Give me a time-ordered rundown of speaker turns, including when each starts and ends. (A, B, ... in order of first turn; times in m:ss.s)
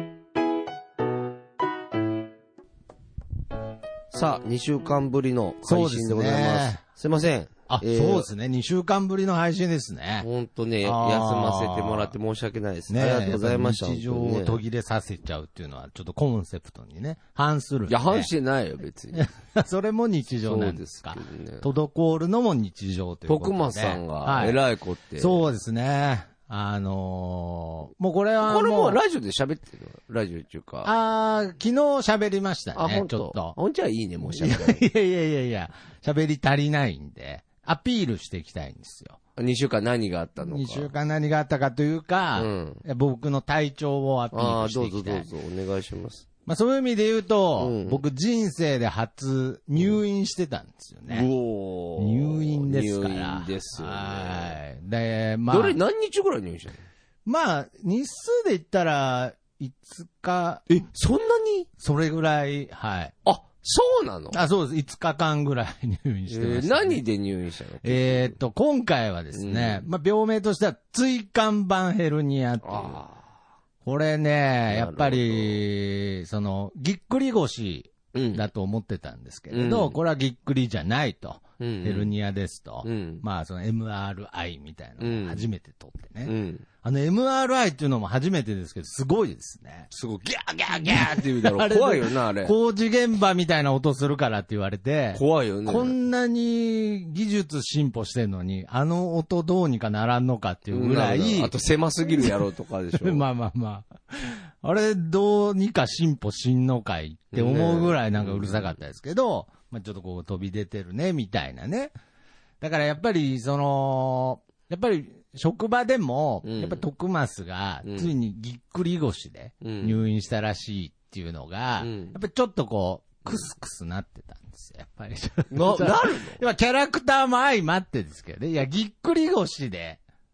0:04.1-0:08.3 A
0:05.6-0:06.8 B
0:07.7-0:10.3 B
0:10.2-0:14.6 A
0:10.8-0:12.1 B
0:12.9-0:18.3 B
0:17.9-0:19.3 A
0:19.2-0:24.6 B
0:20.4-0:21.6 A
0:23.2-0:25.5 A
0:25.2-0:29.0 B
0:28.4-0:30.9 A
0:30.8-0:33.6 B
0:32.7-0:34.8 A
0:34.3-0:39.2 B
0:39.4-0:40.9 A
0:40.4-0:45.3 B
0:42.4-0:42.8 A
0:44.3-0:46.2 A
0:46.4-0:51.3 B
0:47.6-0:48.0 A
0:51.1-0:54.6 A
0:52.0-0:55.8 B
0:55.5-0:56.8 A
0:57.2-1:00.7 B
1:00.7-1:01.7 A
1:01.8-1:03.2 B
1:03.2-1:04.4 A
1:04.3-1:07.0 B
1:06.3-1:08.4 A
1:07.8-1:13.0 B
1:09.3-1:09.9 A
1:12.6-1:13.2 A
1:13.8-1:29.9 B
1:14.7-1:15.6 A
1:18.1-1:18.5 A
1:19.5-1:20.0 A
1:21.6-1:22.1 A
1:22.8-1:23.2 A
1:25.0-1:25.5 A
1:26.2-1:26.6 A
1:29.9-1:32.6 A
1:30.7-1:41.5 B
1:35.1-1:35.9 A
1:40.7-1:43.2 A
1:42.0-1:42.4 B
1:43.0-1:51.9 B
1:47.3-1:48.8 A
1:52.6-2:10.0 B
1:56.4-1:56.8 A
1:57.8-1:58.1 A
1:59.6-2:00.0 A
2:01.8-2:02.2 A
2:05.5-2:06.4 A